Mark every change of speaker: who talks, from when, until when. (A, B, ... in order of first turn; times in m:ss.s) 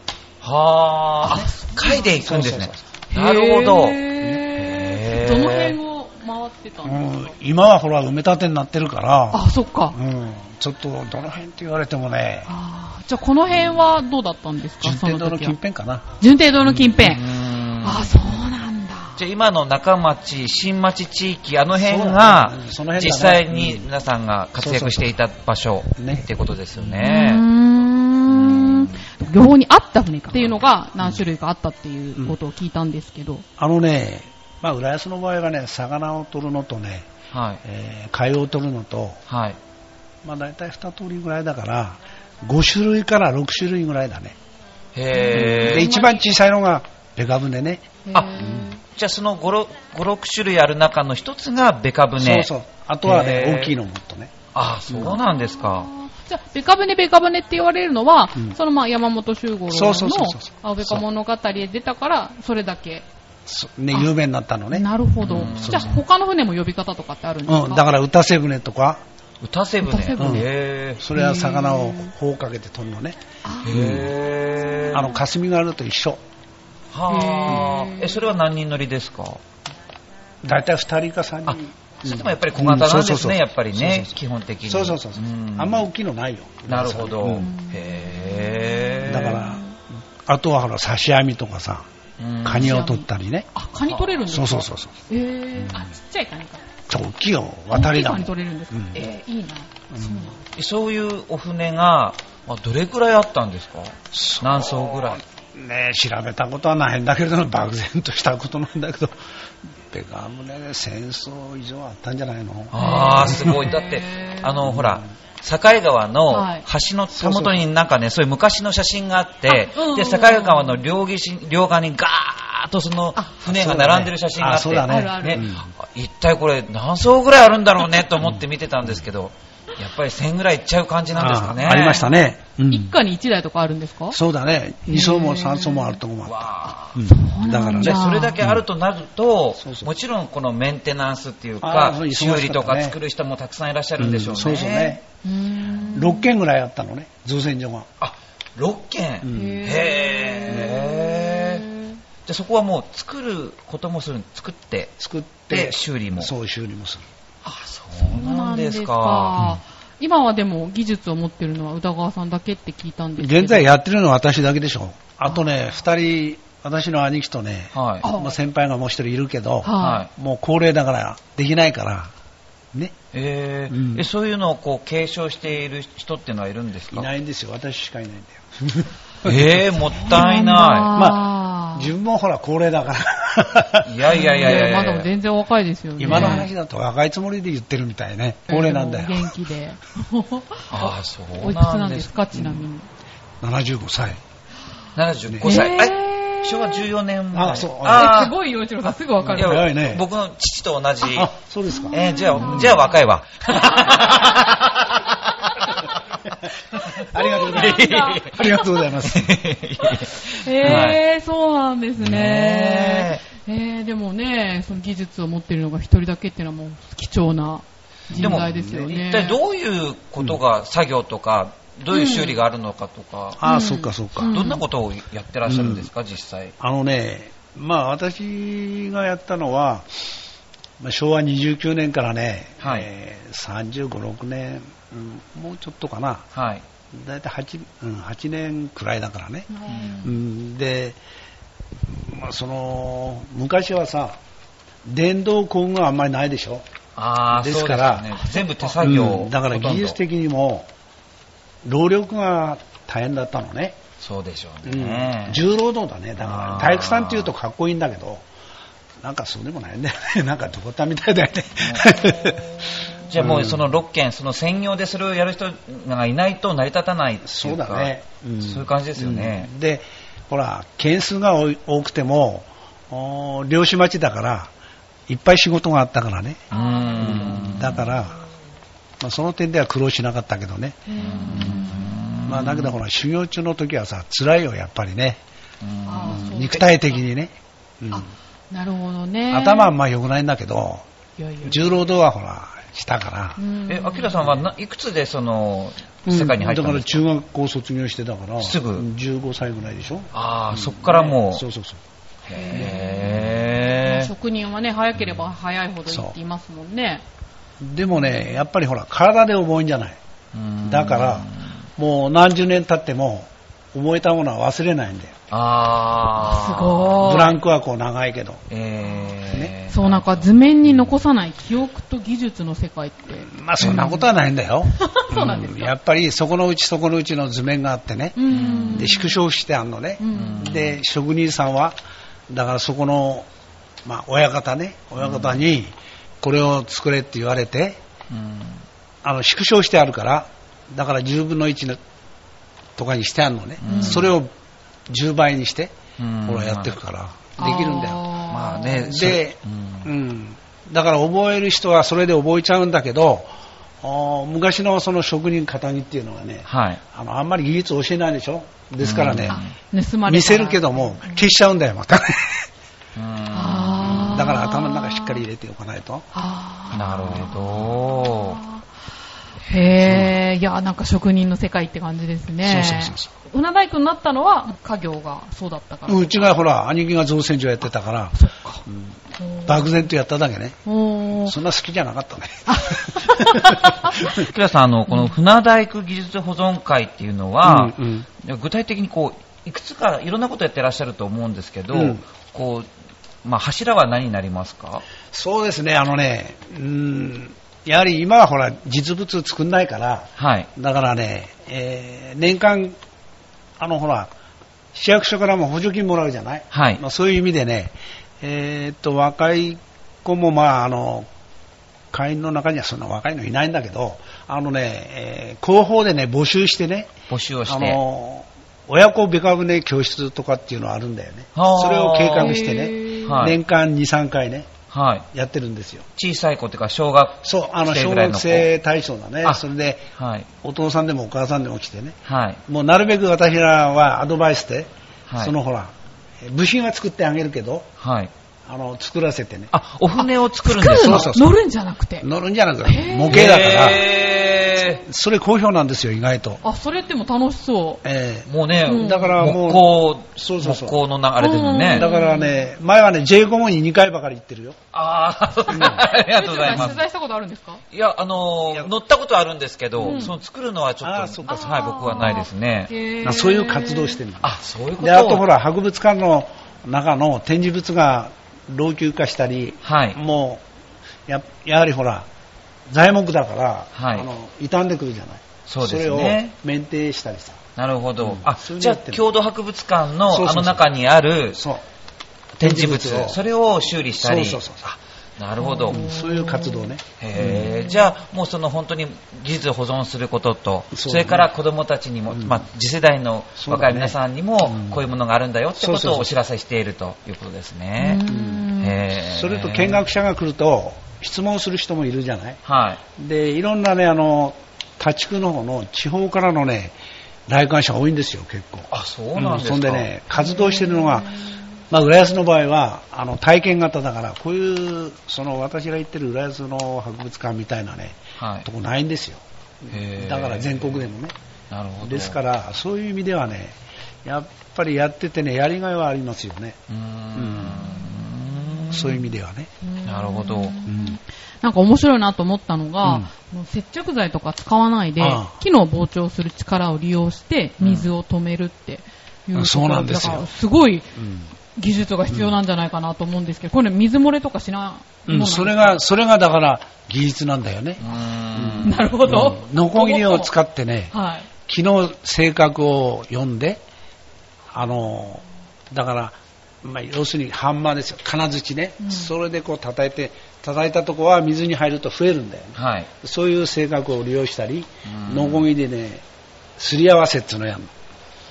0:00.4-0:05.8 A
0:01.2-0:02.1 B
0:01.2-0:02.8 C
0:03.1-0:07.2 B
0:06.8-0:12.5 C
0:09.3-0:10.0 B
0:12.5-0:15.6 B
0:14.8-0:16.0 C
0:16.2-0:19.2 B
0:16.7-0:17.0 C
0:17.0-0:18.2 A
0:19.2-0:27.4 A
0:21.8-0:23.9 C
0:24.6-0:25.2 C
0:26.0-0:26.3 C
0:26.8-0:27.1 C
0:27.0-0:33.4 B
0:28.3-0:29.0 A
0:33.6-0:37.1 C
0:37.3-0:37.6 A
0:37.6-0:39.2 C
0:39.3-0:39.6 A
0:40.2-0:44.4 C
0:45.0-0:45.9 A
0:45.1-0:46.2 B
0:45.3-0:48.7 C
0:48.1-0:48.8 B
0:48.1-0:52.5 A
0:52.2-0:54.3 C
0:53.0-0:53.8 A
0:54.5-0:55.9 A
0:54.9-0:55.2 C
0:55.0-1:03.1 B
0:59.7-1:01.0 C
1:03.5-1:05.9 C
1:04.7-1:07.8 B
1:05.2-1:06.0 A
1:07.5-1:09.0 C
1:09.4-1:11.0 A
1:09.8-1:10.4 B
1:10.2-1:14.1 C
1:11.2-1:12.1 B
1:13.4-1:13.8 B
1:13.7-1:15.2 A
1:14.9-1:16.2 C
1:16.9-1:19.4 A
1:17.1-1:18.3 B
1:20.4-1:27.5 C
1:21.5-1:25.9 A
1:26.7-1:29.4 A
1:27.4-1:29.7 B
1:29.1-1:29.6 C
1:30.2-1:31.9 C
1:32.2-1:32.8 A
1:32.4-1:33.5 C
1:32.6-1:36.6 B
1:33.9-1:34.2 A
1:34.3-1:34.9 C
1:35.6-1:35.9 C
1:36.9-1:39.0 C
1:37.7-1:40.4 B
1:39.9-1:40.4 C
1:40.6-1:45.2 A
1:44.1-1:49.2 C
1:49.9-1:53.7 C
1:52.7-2:12.1 A
1:52.8-1:54.6 B
1:54.6-1:55.1 C
1:56.3-1:56.6 B
1:57.1-1:57.7 C
1:59.5-2:00.8 B
2:03.4-2:05.7 C
2:04.9-2:05.5 B
2:11.1-2:12.9 C
2:11.8-2:14.2 B
2:14.1-2:18.6 C
2:14.9-2:16.0 B
2:16.2-2:17.1 A
2:17.0-2:18.4 B
2:17.8-2:25.0 A
2:19.6-2:19.9 C
2:21.6-2:23.0 C
2:24.0-2:25.0 C
2:25.2-2:26.3 B
2:25.8-2:27.9 C
2:28.0-2:31.6 A
2:29.2-2:29.7 C
2:29.3-2:32.0 B
2:30.5-2:30.8 C
2:32.3-2:35.0 A
2:35.0-2:37.1 C
2:35.5-2:36.3 A
2:37.5-2:39.5 A
2:37.9-2:43.7 B
2:43.2-2:52.1 C
2:47.7-2:48.1 A
2:48.0-2:48.3 B
2:49.6-2:50.1 B
2:49.8-2:50.1 A
2:53.1-2:57.1 A
2:53.7-2:54.1 C
2:56.9-2:59.6 C
2:59.2-3:00.9 A
2:59.8-3:01.9 B
3:00.9-3:04.8 C
3:03.8-3:05.1 A
3:04.1-3:06.5 B
3:06.0-3:09.4 C
3:06.1-3:06.4 A
3:08.5-3:12.9 B
3:10.7-3:12.1 A
3:12.3-3:12.7 C
3:13.4-3:14.2 C
3:15.0-3:18.3 A
3:15.4-3:16.8 B
3:17.3-3:18.3 C
3:17.9-3:19.7 B
3:19.2-3:20.0 C
3:19.3-3:21.3 A
3:21.1-3:22.9 C
3:21.7-3:22.9 B
3:21.9-3:25.7 A
3:23.5-3:24.4 B
3:25.4-3:25.9 B
3:26.7-3:31.0 A
3:27.0-3:29.3 C
3:27.1-3:28.3 B
3:30.1-3:39.4 B
3:32.0-3:33.2 A
3:38.1-3:38.7 C
3:38.2-3:43.4 A
3:41.9-3:42.4 B
3:43.4-3:44.6 C
3:43.4-3:44.6 B
3:44.2-3:46.5 A
3:45.4-3:45.9 C
3:46.6-3:50.1 C
3:50.8-3:56.3 C
3:52.6-3:52.9 A
3:56.3-3:56.6 A
3:56.9-4:01.0 C
3:59.5-4:00.1 B
3:59.7-4:00.2 A
4:01.9-4:04.2 C
4:04.8-4:06.6 C
4:07.0-4:10.0 A
4:07.3-4:08.1 C
4:08.3-4:08.7 B
4:08.8-4:10.7 C
4:11.6-4:13.8 C
4:14.0-4:15.4 A
4:14.6-4:18.2 C
4:16.2-4:17.3 A
4:19.0-4:23.6 C
4:21.6-4:22.0 A
4:22.9-4:29.5 A
4:27.2-4:34.5 C
4:35.1-4:38.2 C
4:36.5-4:37.9 B
4:36.5-4:37.9 A
4:39.0-4:41.6 C
4:40.9-4:42.0 B
4:41.0-4:42.8 A
4:42.3-4:45.2 C
4:45.6-4:46.6 A
4:45.9-4:47.0 B
4:46.1-4:48.1 C
4:47.9-4:49.7 B
4:49.3-4:50.9 C
4:51.2-4:51.8 B
4:51.4-4:53.4 C
4:53.4-4:54.4 B
4:53.7-4:57.0 A
4:56.1-5:01.8 C
4:58.4-4:58.8 A
5:00.1-5:01.4 A
5:02.2-5:04.1 A
5:02.3-5:07.0 B
5:02.5-5:02.8 C
5:05.9-5:06.2 C
5:07.6-5:10.0 C
5:10.3-5:11.5 A
5:10.6-5:15.2 C
5:15.3-5:17.0 A
5:16.2-5:17.4 B
5:17.0-5:18.4 C
5:18.5-5:20.3 A
5:19.2-5:19.5 C
5:19.7-5:24.1 B
5:23.2-5:31.8 C
5:24.7-5:25.7 B
5:28.2-5:29.2 B
5:28.3-5:29.0 A
5:30.0-5:30.6 B
5:30.1-5:30.8 A
5:32.3-5:33.3 C
5:33.8-5:37.8 C
5:35.0-5:35.4 A
5:38.1-5:38.6 A
5:39.0-5:41.8 C
5:42.8-5:44.3 C
5:43.6-5:44.1 A
5:43.6-5:44.1 B
5:44.9-5:45.8 C
5:46.0-5:46.8 A
5:46.3-5:48.2 C
5:47.4-5:48.9 B
5:48.3-5:49.9 A
5:48.8-5:59.4 C
5:56.5-5:56.8 A
5:58.8-5:59.6 A
5:59.3-6:01.3 B
6:00.1-6:02.5 C
6:03.0-6:04.2 A
6:03.3-6:05.2 B
6:03.8-6:06.1 C
6:06.1-6:08.7 B
6:06.7-6:08.4 A
6:09.4-6:16.4 B
6:09.8-6:10.1 C
6:12.4-6:13.1 C
6:15.9-6:20.6 C
6:18.1-6:18.6 B
6:19.2-6:19.8 B
6:20.6-6:21.4 B
6:21.1-6:24.2 C
6:22.5-6:24.0 B
6:24.1-6:32.7 A
6:27.4-6:28.1 C
6:31.7-6:32.0 C
6:33.2-6:34.9 A
6:35.1-6:42.8 C
6:40.2-6:40.5 A
6:43.6-6:44.1 C
6:44.7-6:51.1 C
6:46.5-6:46.8 A
6:51.9-6:56.9 C
6:57.1-6:57.8 A
6:57.5-7:04.6 C
7:01.4-7:02.4 A
7:02.2-7:03.3 B
7:03.0-7:03.4 A
7:04.7-7:05.1 A
7:05.1-7:05.9 C
7:06.0-7:08.5 A
7:07.2-7:09.9 C
7:10.0-7:10.3 A
7:10.4-7:17.7 C
7:12.1-7:12.4 A
7:15.1-7:15.3 A
7:17.8-7:18.1 A
7:18.5-7:19.5 C
7:19.5-7:21.1 A
7:20.0-7:22.1 B
7:20.7-7:21.4 C
7:22.0-7:23.9 C
7:22.6-7:23.2 B
7:23.1-7:24.8 A
7:24.8-7:26.4 C
7:26.4-7:27.8 B
7:27.8-7:30.8 C
7:28.3-7:31.9 A
7:28.6-7:29.2 B
7:31.2-7:32.4 B
7:31.7-7:34.6 C
7:34.7-7:36.8 A
7:35.5-7:35.8 C
7:35.6-7:37.6 B
7:36.4-7:36.8 C
7:37.7-7:42.7 A
7:39.8-7:40.2 C
7:39.8-7:40.1 B
7:40.8-7:41.9 C
7:41.3-7:44.0 B
7:43.0-7:50.4 C
7:44.2-7:45.2 A
7:49.6-7:50.0 A
7:51.1-7:52.1 C
7:52.7-7:57.4 C
7:53.8-7:54.1 A
7:55.5-7:56.3 A
7:57.6-8:01.4 A
7:58.0-7:59.0 C
8:00.1-8:00.6 C
8:01.3-8:01.6 C
8:02.4-8:04.4 A
8:02.4-8:03.2 C
8:04.0-8:04.8 C
8:05.2-8:05.8 A
8:05.4-8:06.8 B
8:05.7-8:07.5 C
8:07.0-8:18.1 A
8:07.3-8:07.8 B
8:10.7-8:11.3 C
8:12.1-8:12.4 C
8:13.4-8:14.8 C
8:15.6-8:16.1 C
8:17.8-8:18.8 B
8:18.1-8:22.4 C
8:18.6-8:19.8 A
8:22.4-8:22.8 A
8:23.0-8:26.8 C
8:27.3-8:41.2 C
8:28.7-8:29.9 A
8:30.3-8:31.4 B
8:38.2-8:38.5 A
8:39.7-8:40.9 A
8:41.5-8:42.2 A
8:41.8-8:46.6 C
8:46.7-8:49.1 A
8:47.2-8:47.8 C
8:48.7-8:49.5 C
8:49.6-9:00.9 B
8:49.8-8:50.6 A
8:50.7-8:51.0 C
8:52.8-8:53.1 C
8:55.0-8:55.4 C
8:57.6-8:57.9 A
8:59.4-9:00.3 C
9:01.0-9:01.3 C
9:01.6-9:05.8 B
9:05.1-9:07.8 C
9:07.8-9:08.8 A
9:08.4-9:10.9 C
9:08.6-9:10.3 B
9:10.9-9:11.3 B
9:11.5-9:13.6 C
9:14.5-9:26.0 C
9:18.8-9:19.1 B
9:22.6-9:22.9 A
9:24.8-9:25.5 A
9:26.6-9:27.7 C